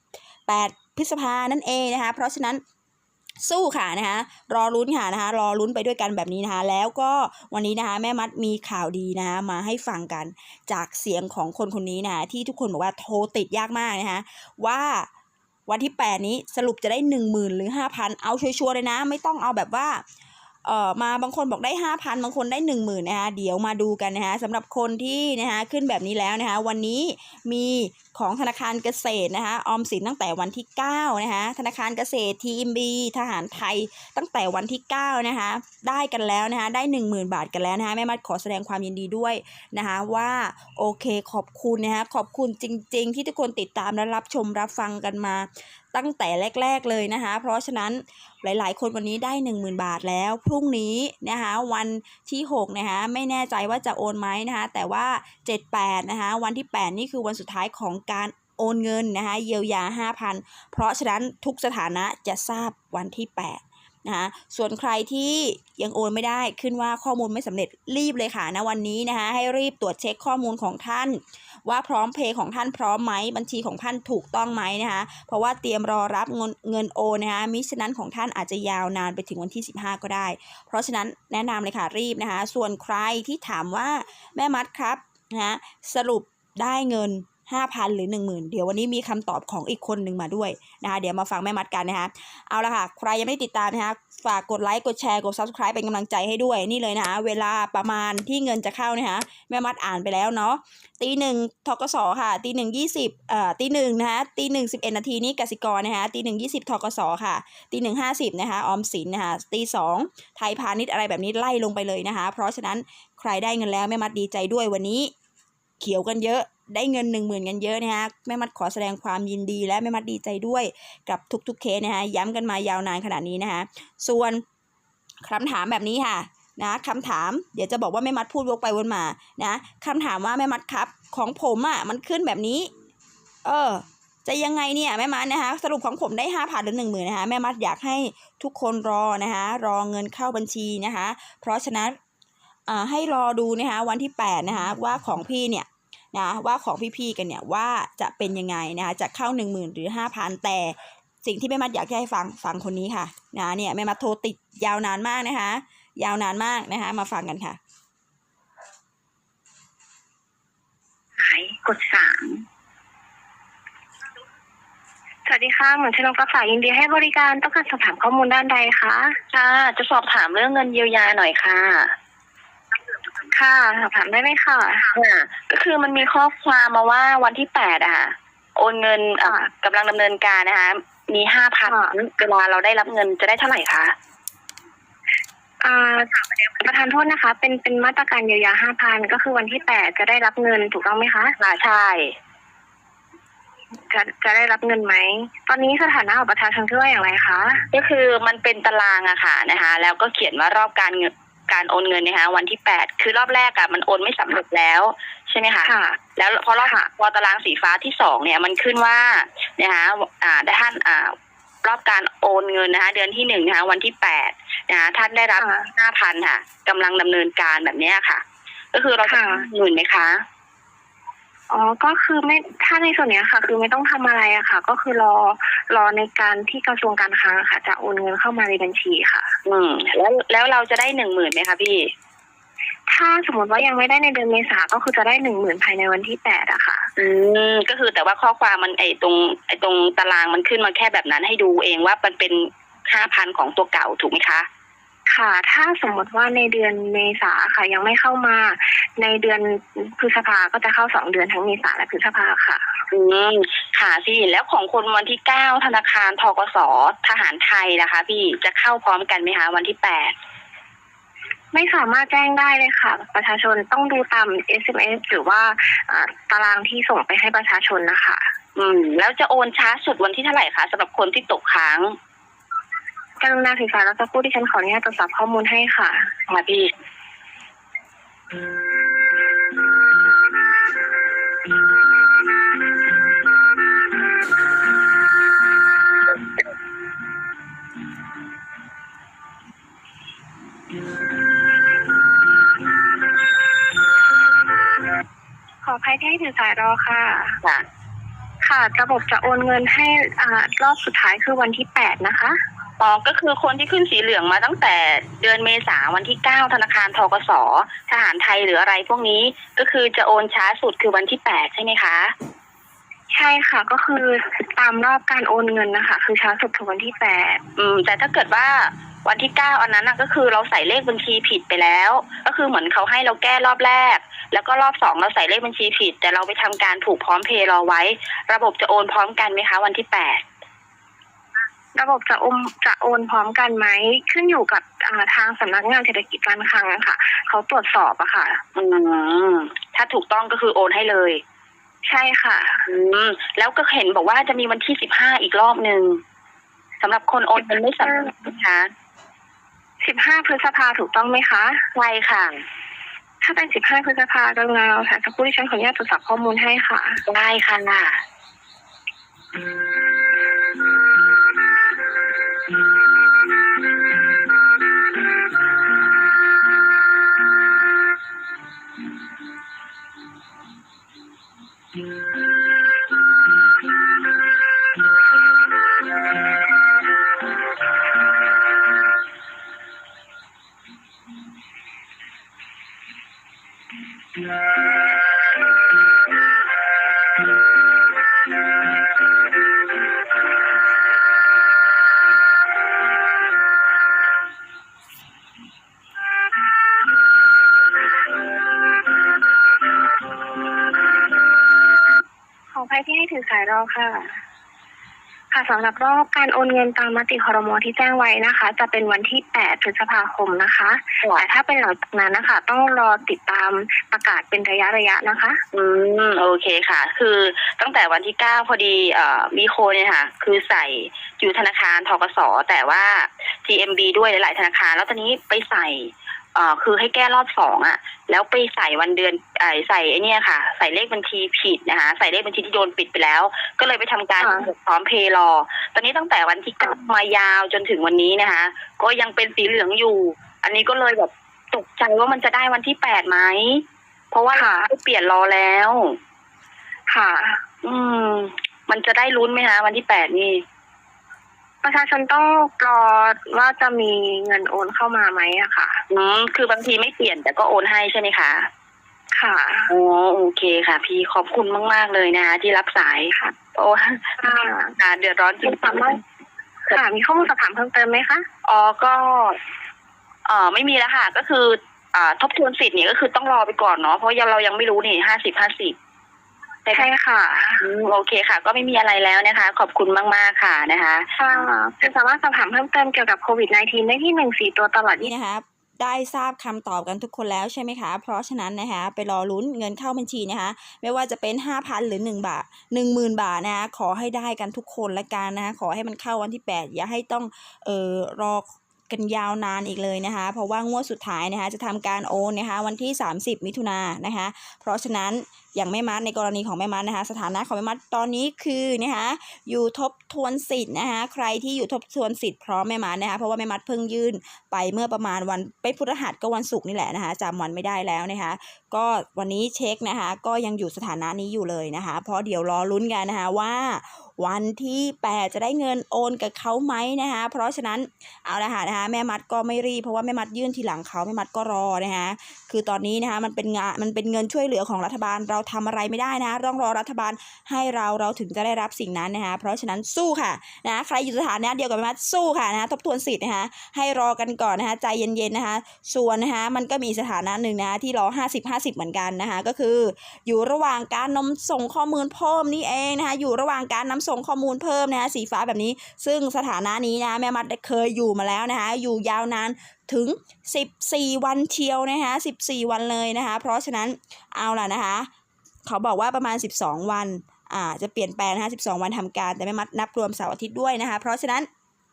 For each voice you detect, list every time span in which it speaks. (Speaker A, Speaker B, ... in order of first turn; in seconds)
Speaker A: 0.5-2.6, 3.4-15.1, 15.7-20.0, 20.6-115.1, 115.8-124.4, 125.2-132.7, 133.4-142.0, 142.7-157.6, 485.0-565.1, 565.6-571.5
Speaker B: 161.2-162.4, 169.3-171.9, 174.9-183.9, 191.4-192.2, 197.7-220.2, 229.4-231.9, 237.0-244.5, 252.9-260.1, 268.6-271.9, 276.3-276.7, 302.8-312.1, 317.6-330.2, 338.5-341.2, 342.6-346.0, 346.8-348.7, 351.7-352.4, 357.1-358.0, 415.5-446.0, 447.6-450.4, 455.9-458.5, 459.7-464.2, 464.7-466.0, 468.4-469.4, 470.2-475.8, 477.6-481.1
Speaker C: 165.2-169.2, 173.3-174.9, 181.6-181.9, 185.6-191.3, 193.9-197.6, 205.7-206.0, 215.4-215.7, 219.0-219.5, 221.5-229.3, 232.9-236.9, 245.1-252.6, 261.5-268.2, 273.2-276.1, 295.6-297.4, 298.4-302.4, 313.1-317.4, 331.7-338.4, 341.8-342.6, 349.8-351.7, 353.2-357.0, 402.5-404.2, 405.3-415.4, 434.2-434.5, 444.3-444.7, 446.9-447.4, 451.6-455.8, 459.1-459.7, 464.2-464.7, 465.5-466.0, 466.7-468.2, 476.7-477.6, 481.2-485.1